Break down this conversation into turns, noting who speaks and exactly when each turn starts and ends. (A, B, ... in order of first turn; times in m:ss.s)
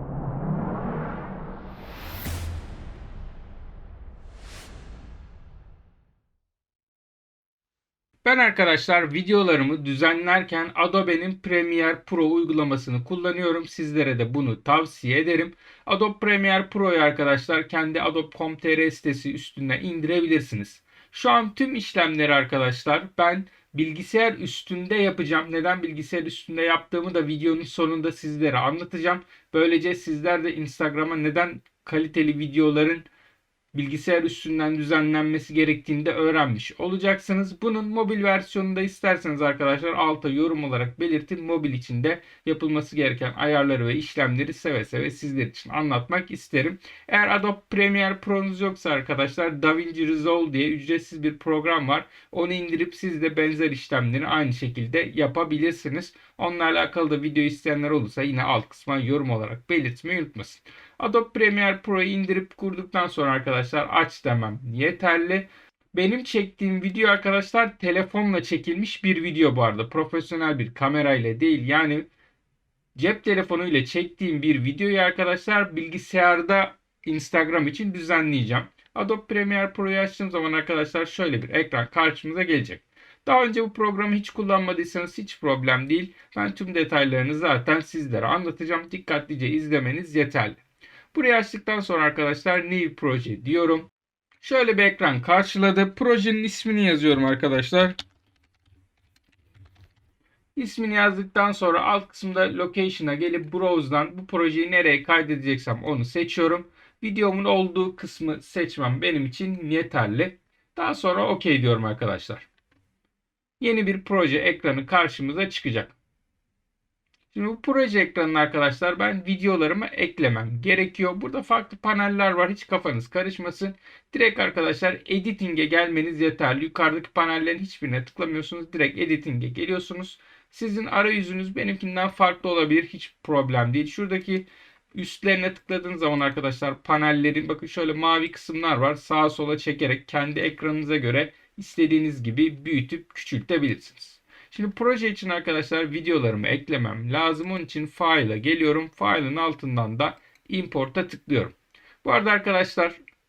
0:08.2-0:33.1 A
0:33.7-1:12.1 A
1:12.9-1:30.6 A
1:31.1-1:38.0 A
1:40.6-1:52.5 A
1:53.6-1:56.0 A
1:57.3-2:33.0 A